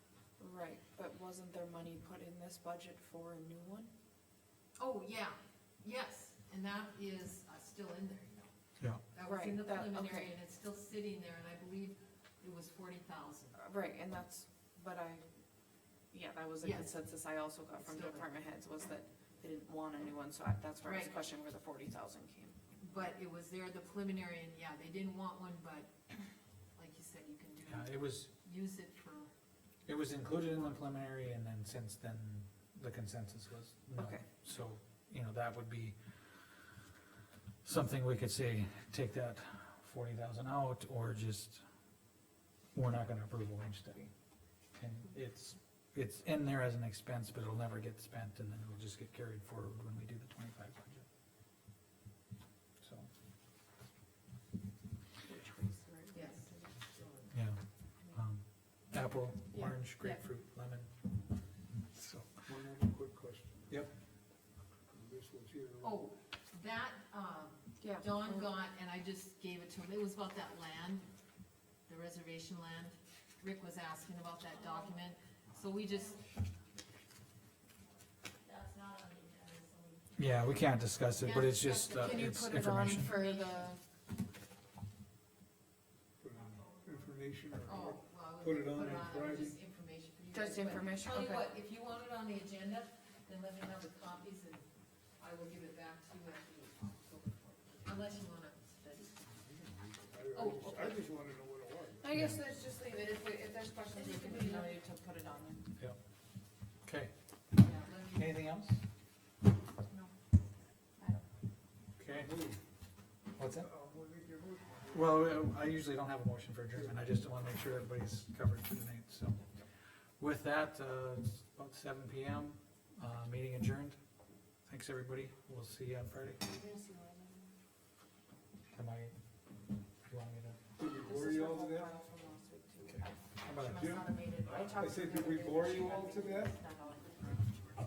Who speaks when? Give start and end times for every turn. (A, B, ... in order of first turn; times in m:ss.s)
0:00.4-0:03.9 A
0:04.8-0:13.6 B
0:09.2-0:10.3 A
0:13.6-0:15.2 A
0:16.1-0:22.6 A
0:16.6-0:17.0 B
0:17.8-0:18.3 B
0:20.8-0:21.2 B
0:22.8-0:25.9 B
0:26.8-0:29.3 B
0:27.6-0:28.3 C
0:29.9-0:36.7 C
0:34.0-0:34.2 A
0:37.6-0:41.6 C
0:42.7-0:44.1 C
0:44.7-0:51.1 C
0:52.8-0:53.1 C
0:55.2-0:56.8 A
0:56.1-0:57.4 B
0:57.3-1:01.2 C
0:59.5-1:00.2 A
1:01.7-1:02.5 C
1:02.4-1:03.8 D
1:04.9-1:06.1 D
1:05.8-1:11.1 B
1:07.8-1:08.4 A
1:11.9-1:16.2 B
1:18.4-1:20.4 E
1:20.2-1:23.1 C
1:21.2-1:22.4 B
1:21.9-1:23.8 A
1:23.0-1:23.7 B
1:26.2-1:29.6 D
1:27.7-1:34.7 B
1:30.3-1:31.5 A
1:35.2-1:39.2 B
1:39.5-1:42.3 D
1:40.3-1:41.1 B
1:42.0-1:45.6 A
1:42.1-1:42.4 C
1:43.9-1:44.8 B
1:46.8-1:47.1 C
1:47.6-1:48.4 B
1:48.1-1:48.8 C
1:51.0-1:51.3 A
1:52.0-1:52.3 C
1:52.1-1:52.6 D
1:53.4-1:53.7 C
1:53.6-1:55.3 D
1:54.9-1:59.4 C
2:00.2-2:04.0 C
2:04.7-2:06.4 C
2:06.4-2:07.5 A
2:08.7-2:09.1 C
2:10.1-2:10.6 C
2:10.8-2:11.9 D
2:11.0-2:17.5 A
2:12.9-2:14.0 C
2:13.6-2:16.6 D